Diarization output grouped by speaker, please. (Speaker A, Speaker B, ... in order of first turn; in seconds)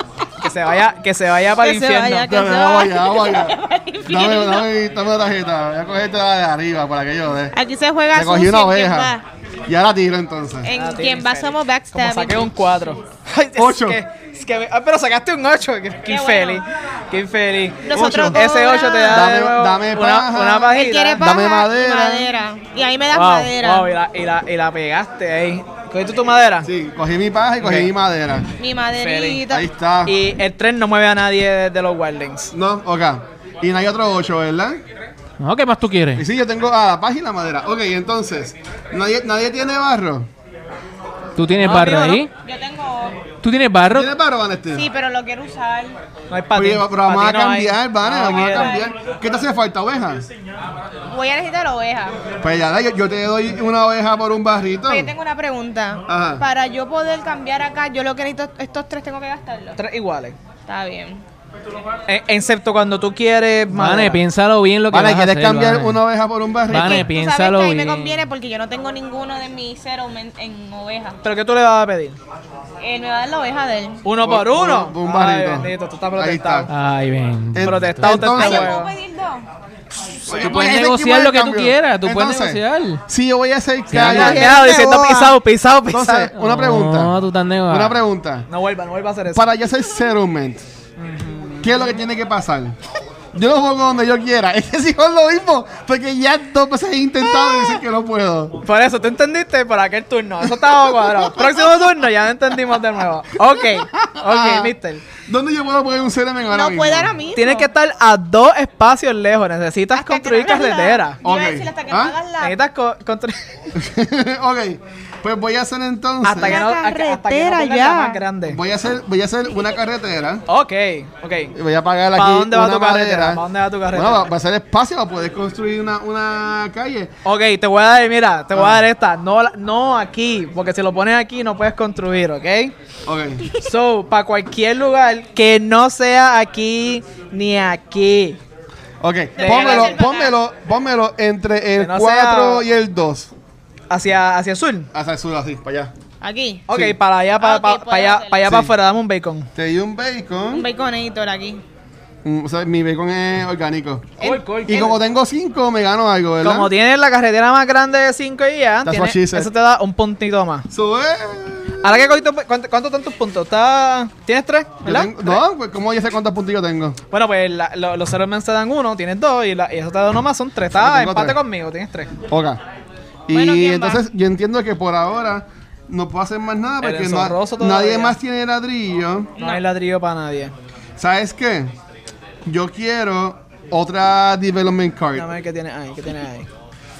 Speaker A: 0.4-2.3, 10.7-21.2, 23.1-26.7, 27.6-27.9, 29.0-29.4, 30.1-32.5, 41.6-42.1, 46.3-48.8, 59.7-60.4, 62.1-64.2, 71.2-72.2, 74.0-76.7, 77.6-78.9, 84.0-86.3, 88.5-89.5, 91.0-91.9, 98.6-105.0, 107.3-111.2, 112.4-113.4, 116.2-118.6, 120.5-121.5, 122.1-124.3, 127.2-132.7, 133.6-138.4, 139.4-140.0, 141.8-142.7, 143.9-144.9, 146.7-149.5, 154.2-154.8, 156.4-160.7, 161.8-165.4, 167.1-172.1, 176.8-178.2, 179.4-180.5, 185.1-186.5
Speaker B: 1.6-4.7, 7.5-9.2, 10.6-12.5, 16.1-16.6, 17.9-19.4, 20.7-23.9, 28.6-29.7, 41.6-43.2, 44.7-46.0, 48.2-48.9, 51.1-52.2, 54.9-59.8, 60.6-61.2, 66.7-71.2, 72.8-74.0, 78.3-79.5, 84.0-85.3, 97.3-97.7, 106.5-107.7, 109.9-112.6, 116.4-118.2, 139.4-140.3, 146.2-146.7, 147.4-148.6, 150.5-151.6, 154.2-154.9, 173.3-174.0, 179.4-179.6
Speaker C: 2.3-3.5, 4.1-7.5, 8.1-9.1, 9.7-10.7, 13.6-14.0, 18.0-18.4, 19.1-22.3, 26.6-28.4, 29.5-30.1, 32.5-34.8, 36.1-40.3, 43.9-44.9, 46.5-50.2, 52.4-55.1, 56.1-56.4, 64.9-67.1, 74.2-76.7, 77.5-78.7, 80.2-84.7, 85.9-87.2, 87.7-88.5, 89.3-90.6, 91.6-92.8, 93.3-98.6, 100.6-101.6, 104.0-104.7, 105.2-107.1, 111.2-112.2, 113.7-116.6, 118.5-120.4, 121.5-123.4, 123.9-127.1, 128.5-128.8, 133.1-133.4, 139.0-143.3, 144.9-145.9, 148.4-148.7, 149.5-150.7, 152.2-154.1, 154.7-156.7, 158.8-159.5, 160.7-162.0, 164.8-167.0, 170.7-171.4, 172.3-172.6, 173.3-179.3, 181.0-181.7, 182.4-185.3
Speaker D: 35.4-36.2, 41.4-42.3, 43.4-44.1, 63.7-66.0, 66.7-68.2, 76.7-78.1, 80.2-83.0, 83.9-84.4, 86.3-88.0, 154.2-154.8